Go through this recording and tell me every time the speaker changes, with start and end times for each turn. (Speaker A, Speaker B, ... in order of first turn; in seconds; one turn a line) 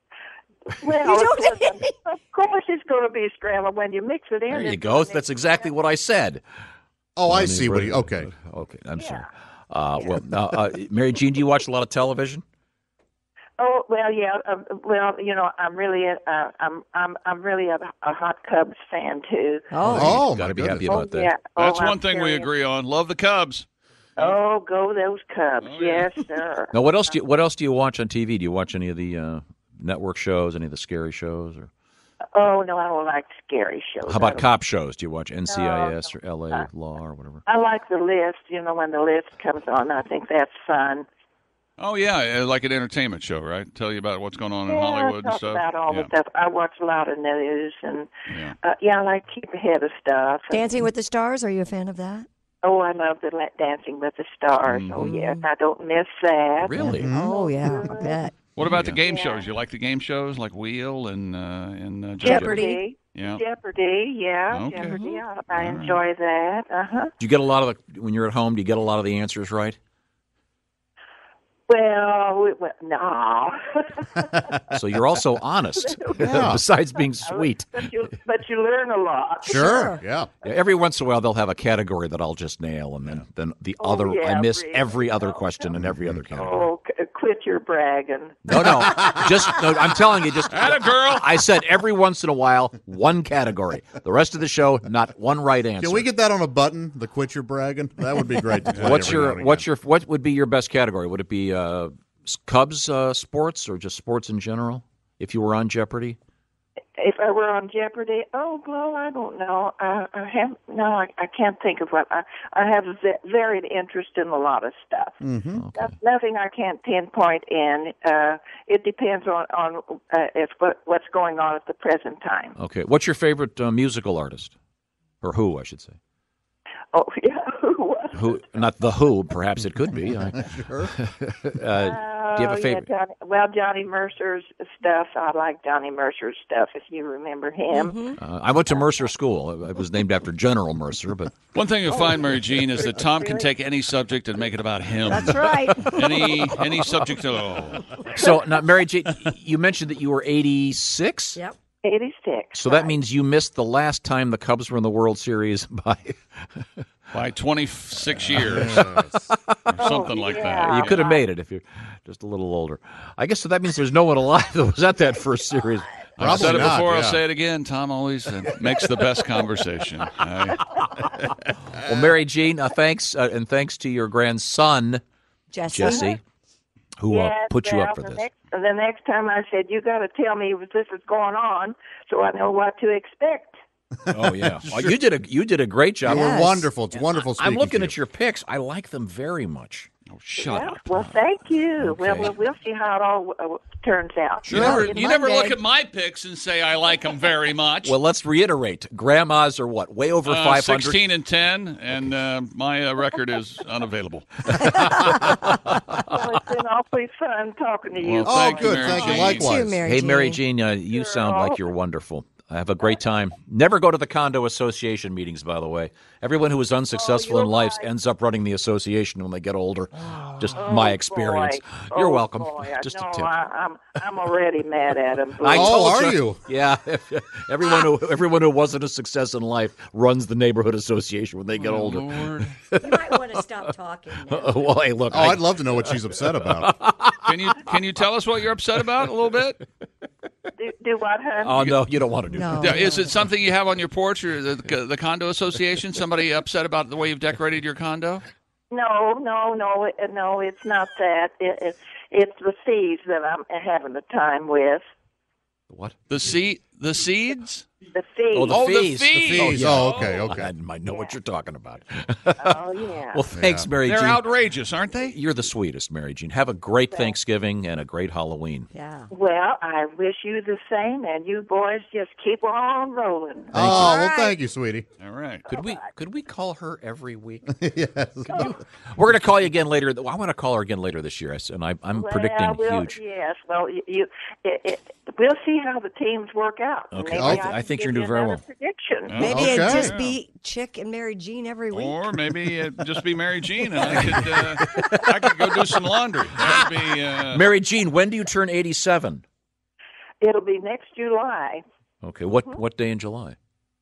Speaker A: 0.7-5.7
Speaker B: 1.0-1.9
Speaker C: 4.5-6.4
Speaker D: 7.2-8.3
Speaker C: 7.2-12.4
Speaker A: 9.0-9.2
Speaker A: 13.6-19.7
Speaker B: 19.7-20.3
Speaker C: 19.8-21.3
Speaker D: 19.9-20.9
Speaker A: 20.8-22.5
Speaker E: 21.6-23.6
Speaker A: 24.2-26.8
Speaker E: 25.6-26.1
Speaker C: 26.7-31.7
Speaker A: 32.3-34.5
Speaker C: 34.0-37.4
Speaker A: 35.5-36.7
Speaker A: 37.5-41.0
Speaker E: 41.8-46.1
Speaker A: 44.7-50.8
Speaker E: 48.3-48.5
Speaker B: 50.5-52.3
Speaker A: 52.6-58.3
Speaker E: 54.6-55.0
Speaker B: 55.0-55.5
Speaker C: 56.6-57.1
Speaker D: 57.0-57.4
Speaker B: 57.0-58.4
Speaker E: 58.5-63.4
Speaker C: 58.6-59.0
Speaker A: 59.0-59.5
Speaker B: 62.2-62.8
Speaker A: 62.2-67.1
Speaker E: 64.5-66.0
Speaker C: 67.2-69.8
Speaker A: 71.7-74.3
Speaker C: 74.7-77.9
Speaker A: 75.8-79.8
Speaker D: 76.2-76.6
Speaker D: 79.4-80.3
Speaker B: 79.5-80.0
Speaker C: 80.4-86.6
Speaker A: 83.8-85.6
Speaker A: 86.3-89.1
Speaker C: 88.5-96.0
Speaker E: 90.5-91.3
Speaker D: 95.8-99.6
Speaker C: 98.7-106.2
Speaker E: 98.7-99.1
Speaker A: 107.0-115.2
Speaker D: 115.2-115.6
Speaker C: 115.5-115.9
Speaker A: 115.7-122.5
Speaker C: 122.6-124.5
Speaker C: 125.2-126.0
Speaker A: 126.9-128.2
Speaker C: 128.1-132.9
Speaker D: 130.3-130.9
Speaker A: 131.7-138.1
Speaker B: 137.7-138.2
Speaker C: 138.2-141.3
Speaker E: 141.5-147.9
Speaker A: 143.0-143.4
Speaker B: 145.0-146.4
Speaker C: 148.1-151.4
Speaker A: 151.8-152.9
Speaker C: 152.5-156.6
Speaker E: 157.1-158.9
Speaker D: 158.3-159.2
Speaker C: 158.3-166.8
Speaker E: 159.7-161.0
Speaker A: 159.8-161.2
Speaker E: 166.2-170.8
Speaker D: 166.2-167.2
Speaker C: 171.7-175.0
Speaker B: 175.5-176.1
Speaker C: 175.7-176.2
Speaker C: 177.0-178.2
Speaker A: 177.1-183.6
Speaker D: 184.0-184.9
Speaker C: 184.1-186.7
Speaker D: 186.0-187.9
Speaker B: 186.1-186.6
Speaker C: 187.2-189.9
Speaker E: 190.1-190.8
Speaker A: 190.3-195.0
Speaker C: 191.8-192.3
Speaker C: 194.4-194.9
Speaker E: 194.5-198.0
Speaker B: 194.6-195.6
Speaker C: 197.8-201.0
Speaker E: 200.2-204.6
Speaker C: 204.6-205.1
Speaker B: 204.9-205.3
Speaker A: 205.9-209.4
Speaker E: 208.0-209.5
Speaker D: 208.2-209.8
Speaker B: 209.3-210.4
Speaker C: 209.8-223.3
Speaker A: 210.9-211.6
Speaker A: 216.9-217.8
Speaker A: 220.6-225.9
Speaker C: 225.4-233.6
Speaker D: 225.4-226.4
Speaker E: 231.6-232.6
Speaker B: 232.8-234.8
Speaker C: 234.2-237.6
Speaker D: 235.1-236.7
Speaker E: 237.2-239.6
Speaker A: 240.6-241.7
Speaker C: 241.4-242.9
Speaker B: 242.3-243.0
Speaker E: 242.6-248.2
Speaker A: 248.7-254.8
Speaker C: 255.7-255.9
Speaker E: 256.1-257.7
Speaker A: 257.9-258.6
Speaker C: 258.3-264.3
Speaker E: 258.5-260.3
Speaker D: 259.3-260.5
Speaker A: 260.9-261.1
Speaker A: 262.4-263.2
Speaker D: 263.4-263.7
Speaker E: 263.8-265.2
Speaker C: 265.0-268.7
Speaker B: 268.7-269.1
Speaker A: 269.1-273.6
Speaker D: 273.5-274.9
Speaker C: 273.5-274.0
Speaker B: 273.7-274.4
Speaker E: 275.0-275.4
Speaker C: 275.5-277.5
Speaker D: 277.5-278.5
Speaker C: 278.2-283.0
Speaker A: 281.9-289.2
Speaker C: 286.9-288.4
Speaker D: 287.2-287.4
Speaker E: 289.1-290.1
Speaker D: 289.2-290.0
Speaker B: 289.2-292.1
Speaker E: 291.7-297.4
Speaker C: 293.9-295.6
Speaker C: 296.4-299.2
Speaker A: 300.2-301.6
Speaker C: 302.0-303.4